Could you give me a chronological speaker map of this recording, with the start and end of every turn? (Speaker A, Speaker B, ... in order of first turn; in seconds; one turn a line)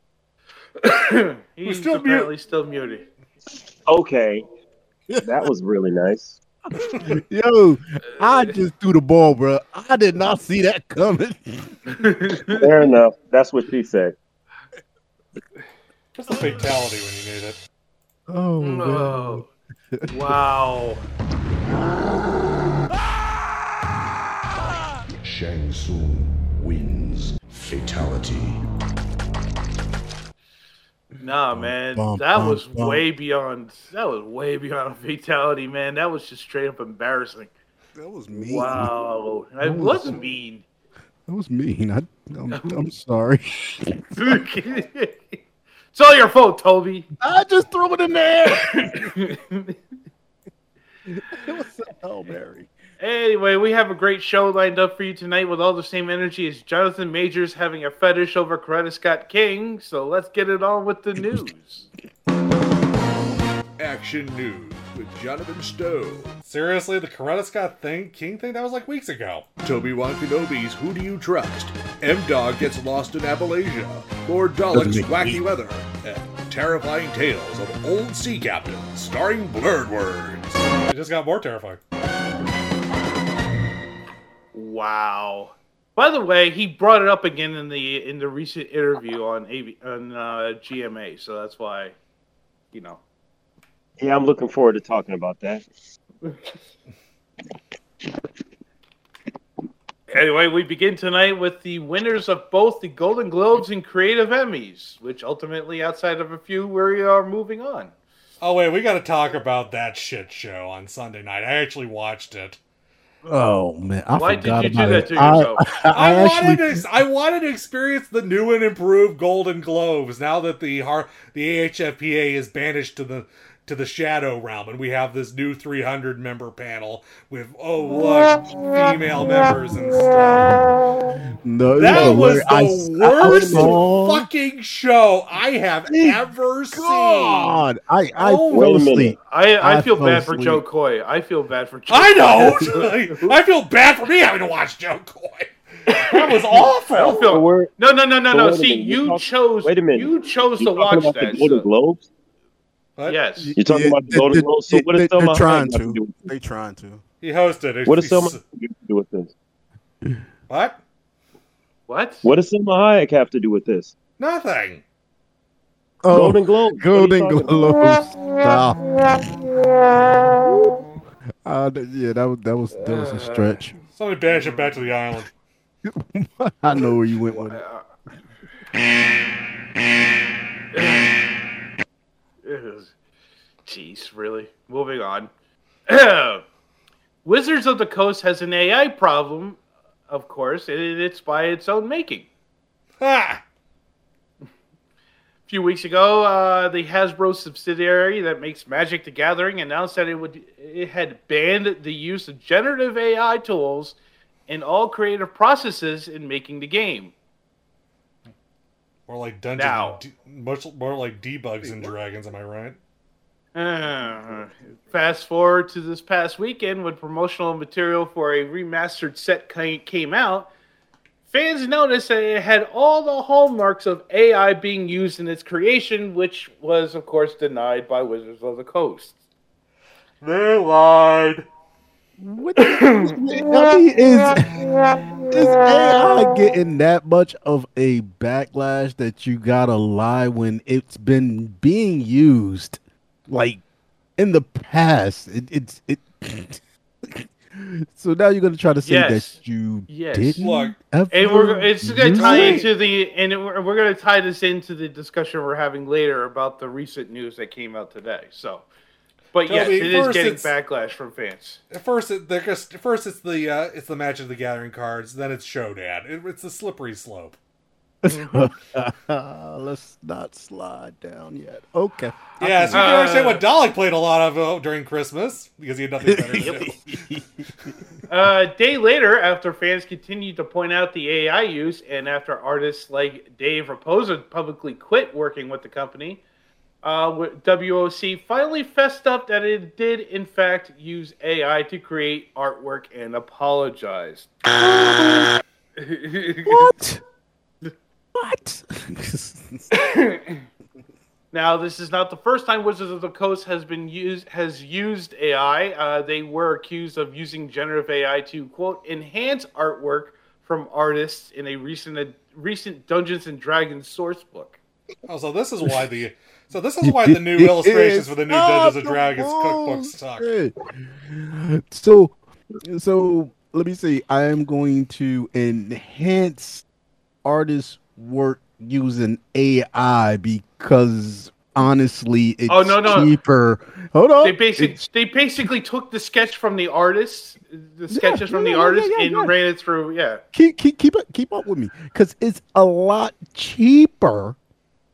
Speaker A: 0.8-3.1
Speaker B: 1.6-2.3
Speaker C: 3.9-4.5
Speaker C: 5.2-6.4
Speaker D: 6.9-11.8
Speaker A: 11.9-12.6
Speaker C: 12.5-14.2
Speaker B: 16.1-17.6
Speaker D: 18.3-20.1
Speaker A: 18.6-19.4
Speaker A: 20.1-21.0
Speaker D: 21.7-22.6
Speaker E: 25.1-28.6
Speaker A: 31.2-37.5
Speaker D: 31.5-33.0
Speaker D: 38.0-38.9
Speaker A: 38.5-40.6
Speaker D: 39.6-40.2
Speaker D: 41.3-44.4
Speaker A: 44.2-45.4
Speaker A: 45.9-47.1
Speaker D: 47.2-49.0
Speaker A: 48.7-49.8
Speaker D: 51.1-52.7
Speaker A: 53.0-61.9
Speaker D: 61.2-61.4
Speaker B: 63.8-81.8
Speaker D: 74.7-75.4
Speaker A: 84.5-92.0
Speaker A: 92.7-93.0
Speaker C: 94.0-95.7
Speaker A: 100.1-107.9
Speaker B: 108.4-112.6
Speaker D: 113.2-116.8
Speaker A: 114.2-115.6
Speaker B: 115.9-130.7
Speaker D: 130.4-130.8
Speaker D: 131.4-134.3
Speaker B: 131.8-137.7
Speaker C: 131.9-132.2
Speaker C: 133.2-133.8
Speaker D: 135.9-140.6
Speaker B: 138.2-138.8
Speaker C: 138.5-139.2
Speaker A: 139.3-143.3
Speaker B: 141.9-147.3
Speaker A: 145.9-151.7
Speaker C: 146.9-147.7
Speaker C: 148.3-152.1
Speaker A: 153.1-153.5
Speaker D: 153.4-157.0
Speaker C: 153.6-156.2
Speaker B: 157.2-158.4
Speaker C: 157.8-159.3
Speaker B: 160.5-160.8
Speaker A: 161.9-162.2
Speaker C: 162.2-163.9
Speaker B: 164.2-164.8
Speaker D: 166.0-169.4
Speaker C: 166.1-167.7
Speaker D: 170.1-170.9
Speaker D: 171.4-173.8
Speaker A: 172.8-173.6
Speaker B: 173.9-175.3
Speaker D: 175.8-177.6
Speaker A: 177.3-177.9
Speaker A: 180.7-181.2
Speaker A: 182.4-182.9
Speaker A: 183.7-185.3
Speaker A: 185.9-186.4
Speaker A: 187.2-192.3
Speaker B: 193.0-193.4
Speaker A: 195.5-204.0
Speaker A: 204.5-207.1
Speaker B: 209.1-212.8
Speaker A: 209.6-210.0
Speaker A: 213.6-220.5
Speaker A: 221.3-229.1
Speaker B: 230.2-231.5
Speaker D: 232.2-234.6
Speaker A: 232.6-233.1
Speaker D: 235.2-243.6
Speaker D: 244.2-252.7
Speaker A: 248.8-250.5
Speaker B: 250.4-250.8
Speaker A: 251.1-258.7
Speaker B: 251.9-252.7
Speaker A: 259.3-261.6
Speaker B: 259.5-260.5
Speaker B: 261.7-267.4
Speaker D: 268.0-273.1
Speaker A: 268.1-268.4
Speaker B: 272.4-276.8
Speaker A: 272.7-273.4
Speaker D: 276.1-277.5
Speaker A: 278.1-286.2
Speaker A: 286.8-294.3
Speaker D: 294.6-295.3
Speaker A: 295.8-296.7
Speaker D: 296.4-297.0
Speaker D: 298.1-299.7
Speaker A: 299.7-300.4
Speaker A: 301.3-314.6
Speaker B: 315.1-320.3
Speaker D: 316.8-326.6
Speaker D: 327.2-334.9
Speaker A: 332.5-333.1
Speaker A: 334.2-340.2
Speaker D: 337.9-339.3
Speaker D: 340.3-344.4